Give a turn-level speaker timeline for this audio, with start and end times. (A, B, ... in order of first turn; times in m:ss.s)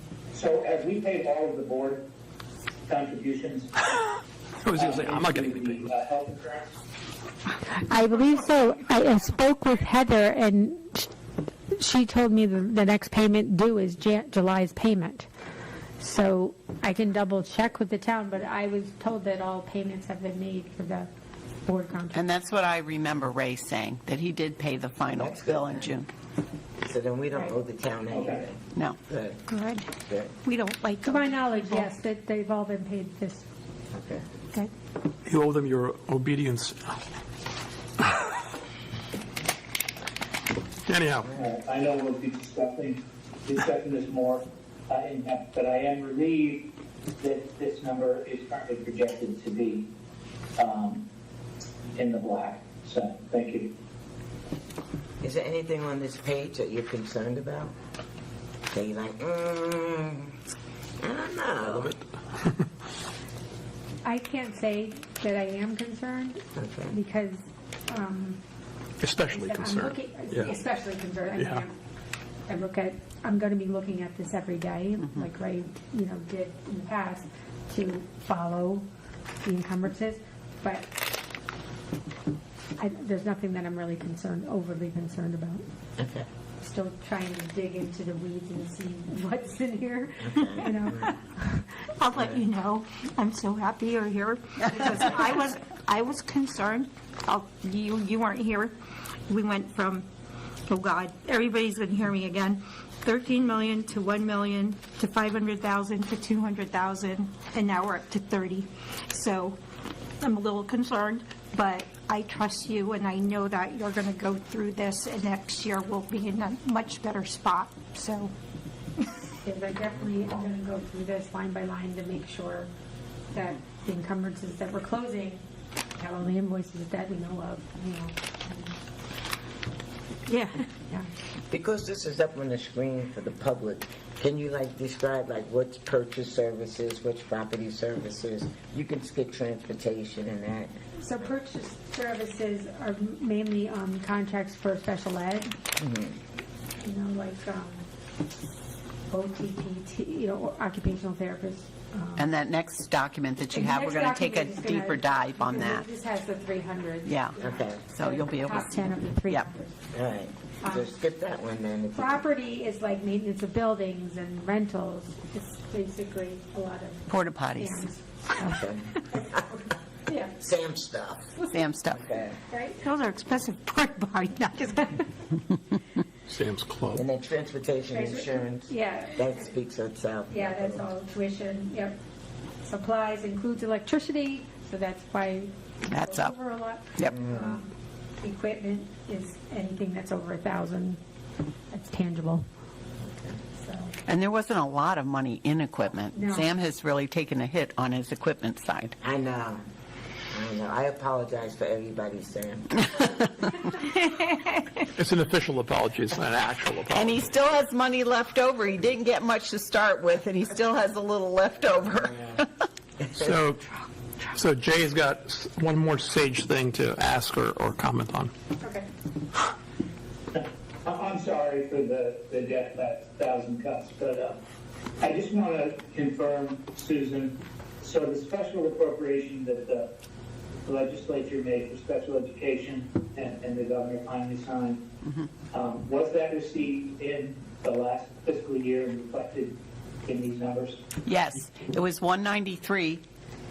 0:00.3-0:02.0 A
0:02.9-0:03.7 A
0:04.6-0:05.8 B
0:04.7-0:06.7 A
0:07.7-0:11.1 C
0:11.7-0:15.3 C
0:16.0-0:21.1 C
0:21.6-0:22.3 C
0:22.1-0:26.1 D
0:25.1-0:26.0 E
0:26.8-0:29.4 E
0:28.1-0:28.4 A
0:29.5-0:29.9 F
0:30.0-0:30.3 E
0:30.4-0:31.9 F
0:31.0-0:33.4 C
0:33.9-0:34.2 E
0:35.2-0:37.0 B
0:40.9-0:41.3 B
0:41.3-0:46.7 A
0:47.2-0:49.9 A
0:50.6-0:51.0 A
0:51.9-0:53.7 A
0:55.2-0:57.7 E
0:58.7-1:00.4 E
1:01.0-1:02.0 E
1:04.0-1:08.4 C
1:06.6-1:07.0 E
1:09.0-1:10.5 B
1:09.3-1:11.7 C
1:11.4-1:11.6 B
1:12.5-1:18.8 C
1:19.4-1:20.9 C
1:22.8-1:25.6 C
1:26.0-1:26.3 E
1:26.6-1:31.7 C
1:30.2-1:31.1 E
1:32.0-1:38.7 F
1:39.3-1:40.0 F
1:40.7-1:49.6 F
1:50.2-1:58.3 F
1:59.4-2:02.7 C
2:03.3-2:05.4 C
2:06.0-2:08.7 C
2:10.3-2:10.7 F
2:11.5-2:21.3 E
2:21.0-2:25.5 C
2:25.8-2:26.2 E
2:26.8-2:27.8 C
2:29.1-2:32.3 C
2:32.2-2:35.8 D
2:33.5-2:39.8 C
2:37.0-2:37.3 D
2:37.4-2:37.8 E
2:37.9-2:39.4 D
2:39.9-2:42.2 E
2:40.6-2:40.9 C
2:41.9-2:49.3 C
2:47.1-2:47.9 D
2:48.4-2:49.5 E
2:50.0-2:50.4 C
2:50.4-2:51.3 E
2:51.4-2:51.6 C
2:51.5-2:52.1 D
2:51.9-2:52.4 E
2:52.4-2:52.8 C
2:52.8-2:55.1 F
2:56.3-2:57.0 B
2:56.9-3:00.9 E
2:57.9-2:59.4 C
3:00.3-3:02.0 C
3:02.6-3:11.0 C
3:05.9-3:06.3 D
3:07.0-3:07.6 E
3:11.7-3:12.4 C
3:13.0-3:13.4 E
3:13.5-3:14.0 C
3:14.0-3:18.9 D
3:16.1-3:16.5 C
3:19.0-3:19.6 E
3:20.3-3:23.1 E
3:23.8-3:24.6 F
3:25.0-3:27.2 B
3:26.9-3:32.5 D
3:32.1-3:32.4 E
3:33.0-3:33.4 E
3:33.1-3:33.6 B
3:34.3-3:38.3 B
3:38.6-3:38.9 C
3:40.3-3:44.4 A
3:45.0-3:49.9 A
3:50.6-3:54.8 A
3:55.5-4:00.8 A
4:01.0-4:03.0 D